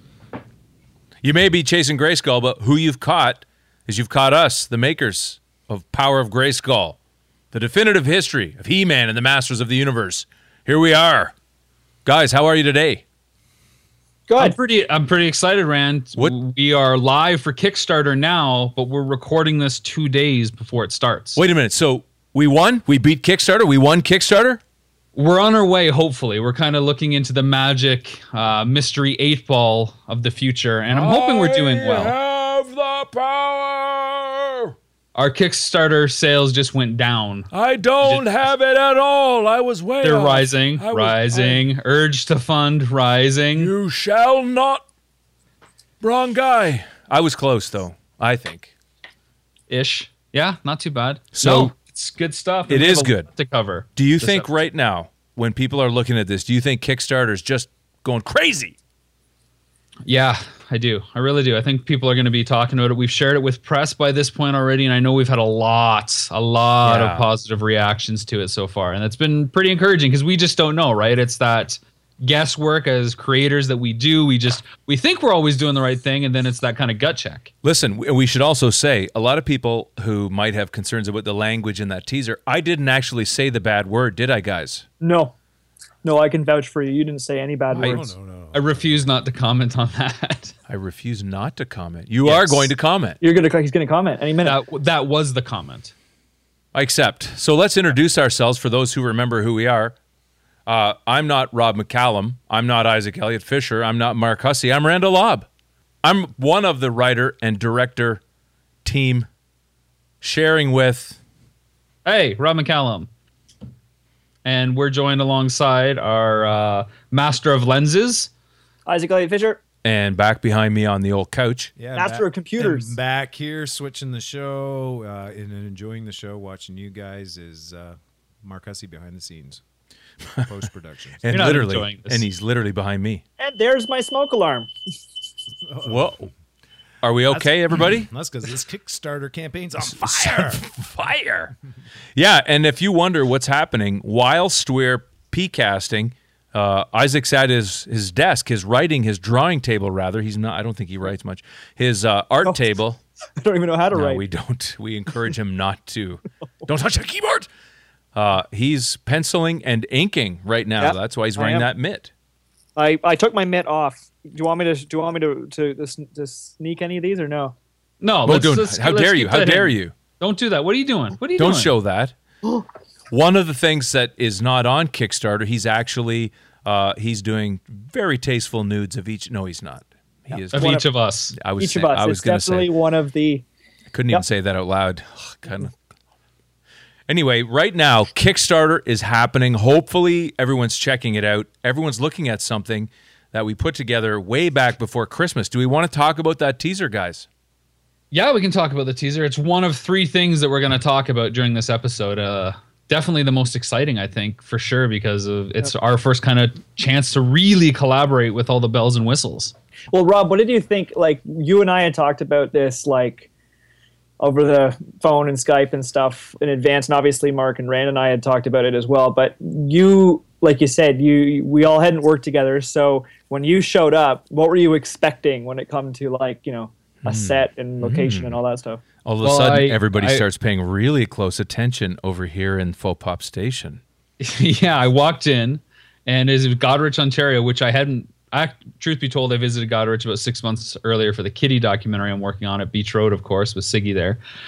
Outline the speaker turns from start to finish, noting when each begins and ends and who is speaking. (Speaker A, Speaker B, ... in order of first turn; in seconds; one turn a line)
Speaker A: 1.2-7.0
Speaker A: 7.5-11.3
Speaker A: 12.1-13.0
Speaker B: 14.3-14.6
Speaker C: 14.4-21.4
Speaker A: 21.4-24.6
Speaker C: 25.1-32.1
Speaker A: 30.9-34.8
Speaker C: 35.1-37.5
Speaker A: 37.5-41.6
Speaker C: 40.0-43.7
Speaker A: 43.6-44.9
Speaker A: 46.0-48.7
Speaker C: 49.7-54.5
Speaker A: 51.3-51.7
Speaker A: 52.7-53.3
Speaker A: 54.0-58.8
Speaker C: 60.1-77.5
Speaker A: 66.8-67.2
Speaker A: 77.6-84.9
Speaker B: 85.0-85.3
Speaker B: 86.0-88.1
Speaker D: 87.7-89.2
Speaker A: 87.8-88.1
Speaker C: 88.5-90.5
Speaker A: 90.7-93.2
Speaker C: 92.2-92.7
Speaker B: 93.2-94.6
Speaker C: 94.4-95.9
Speaker A: 96.7-100.0
Speaker A: 100.7-105.5
Speaker A: 106.0-108.2
Speaker A: 108.8-109.3
Speaker A: 110.2-111.2
Speaker C: 112.0-113.1
Speaker C: 114.5-118.3
Speaker B: 118.9-119.6
Speaker A: 119.8-121.7
Speaker D: 121.8-129.6
Speaker B: 122.0-123.0
Speaker D: 130.3-131.5
Speaker A: 131.2-133.2
Speaker C: 131.3-132.2
Speaker B: 133.4-134.7
Speaker D: 135.7-136.3
Speaker A: 135.8-136.3
Speaker A: 137.0-138.1
Speaker D: 137.3-140.7
Speaker A: 139.8-141.6
Speaker A: 142.2-153.0
Speaker B: 153.4-154.2
Speaker A: 153.9-157.5
Speaker A: 158.1-162.1
Speaker B: 160.8-161.7
Speaker B: 162.8-167.6
Speaker C: 168.0-171.7
Speaker A: 168.2-169.9
Speaker A: 171.4-172.2
Speaker A: 173.1-182.7
Speaker B: 180.3-180.9
Speaker C: 180.5-181.4
Speaker B: 181.6-183.4
Speaker A: 183.9-185.7
Speaker A: 187.1-197.3
Speaker C: 198.1-209.5
Speaker B: 209.9-213.3
Speaker B: 214.2-228.8
Speaker A: 227.1-228.4
Speaker A: 229.1-233.8
Speaker C: 229.2-230.2
Speaker C: 234.2-244.2